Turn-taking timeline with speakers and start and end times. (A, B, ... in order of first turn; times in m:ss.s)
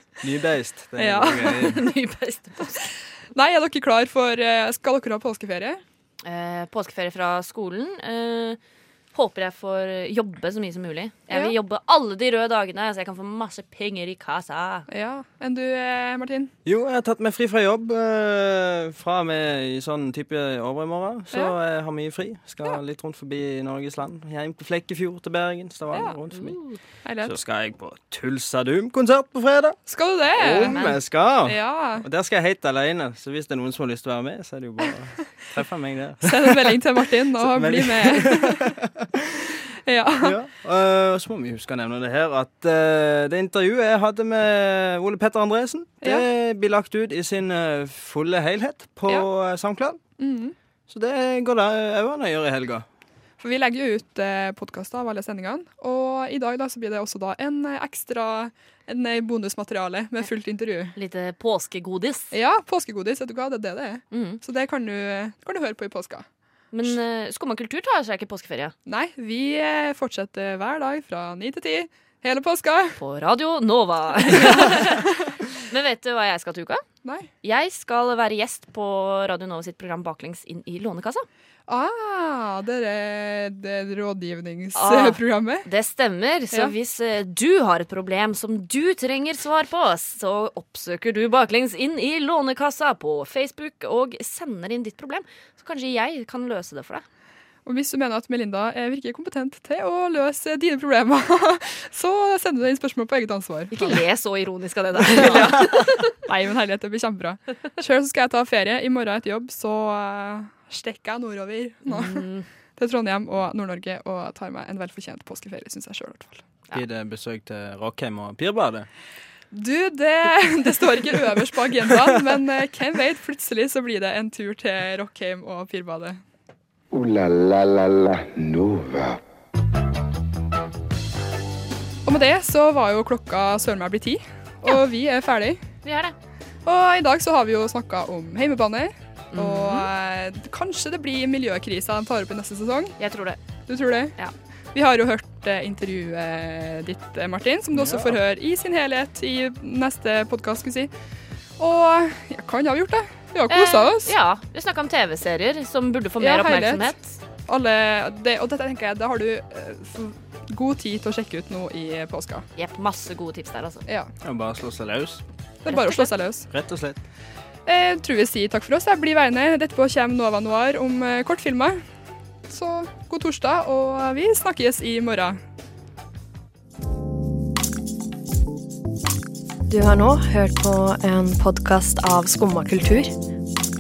0:00.2-0:01.8 A
0:01.0-0:01.8 B
0:01.6-0:02.9 C
0:03.3-0:05.8 B
0:06.2-0:08.6 C
0:09.1-0:14.9 C
0:14.9-0:16.5 B
0:16.6-0:26.6 A
0:26.3-0:26.8 C
0:27.0-0:27.4 B
0:27.2-0:29.8 A
0:29.9-0:30.9 B
0:30.4-0:36.8 A
0:30.7-0:31.0 C
0:31.4-0:32.0 B
0:36.2-0:38.6 B
0:37.4-0:38.9 A
0:39.9-0:40.3 B
0:40.2-0:50.0 A
0:50.2-0:50.6 B
0:50.9-0:52.9 A
0:53.4-1:00.9 B
1:01.0-1:02.3 C
1:02.3-1:06.2 B
1:04.1-1:04.4 C
1:06.7-1:08.7 C
1:08.9-1:13.0 B
1:13.0-1:15.0 C
1:14.3-1:15.4 B
1:15.6-1:16.8 C
1:17.0-1:17.3 B
1:17.4-1:21.3 C
1:21.7-1:25.7 B
1:24.8-1:37.0 C
1:37.6-1:44.0 B
1:43.7-1:46.1 C
1:45.1-1:56.4 B
1:51.9-1:52.5 C
1:56.7-1:58.9 A
1:59.5-2:06.2 B
2:06.9-2:09.2 D
2:12.0-2:15.7 B
2:15.8-2:16.1 C
2:16.7-2:23.0 B
2:19.3-2:19.9 C
2:23.0-2:23.4 C
2:23.7-2:24.2 B
2:24.7-2:30.9 B
2:31.6-2:34.2 B
2:33.5-2:37.1 C
2:36.2-2:42.4 B
2:42.6-2:43.8 C
2:44.2-2:45.2 A
2:45.6-2:46.5 B
2:45.7-2:46.1 C
2:46.5-2:47.0 A
2:47.7-2:51.8 B
2:52.5-2:55.4 B
2:59.7-3:03.1 E